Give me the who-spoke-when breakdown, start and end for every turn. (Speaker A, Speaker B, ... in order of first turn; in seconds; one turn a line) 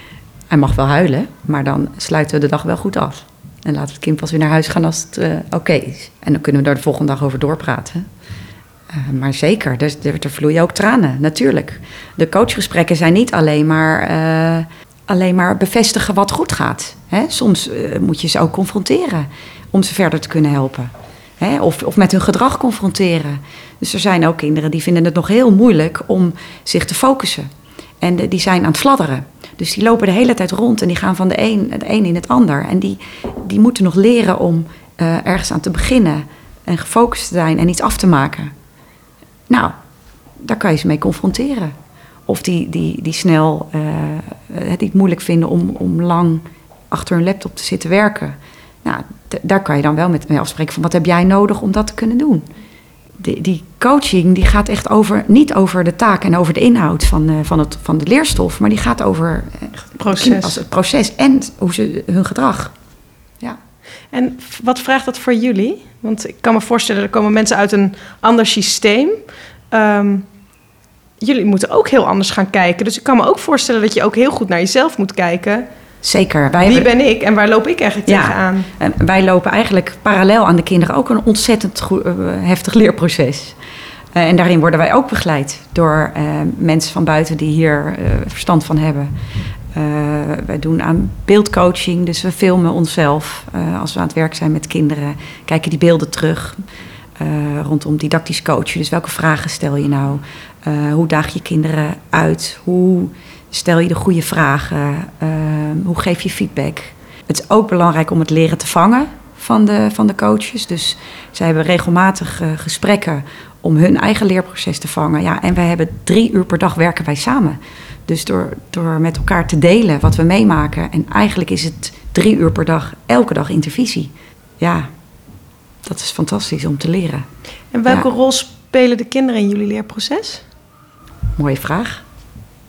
Speaker A: 0.5-8.1
Speaker A: 8.9-27.5
Speaker A: 28.0-38.5
Speaker A: 39.5-39.7
Speaker A: 40.4-41.7
Speaker A: 42.3-52.5
Speaker A: 53.2-62.7
Speaker B: 60.0-60.6
Speaker B: 64.1-70.2
Speaker B: 71.2-75.7
Speaker A: 76.0-76.9
Speaker B: 76.6-78.7
Speaker A: 78.0-83.6
Speaker A: 84.1-89.1
Speaker A: 89.7-96.6
Speaker A: 97.2-124.9
Speaker A: 125.8-127.3
Speaker B: 127.7-130.4
Speaker A: 131.4-132.0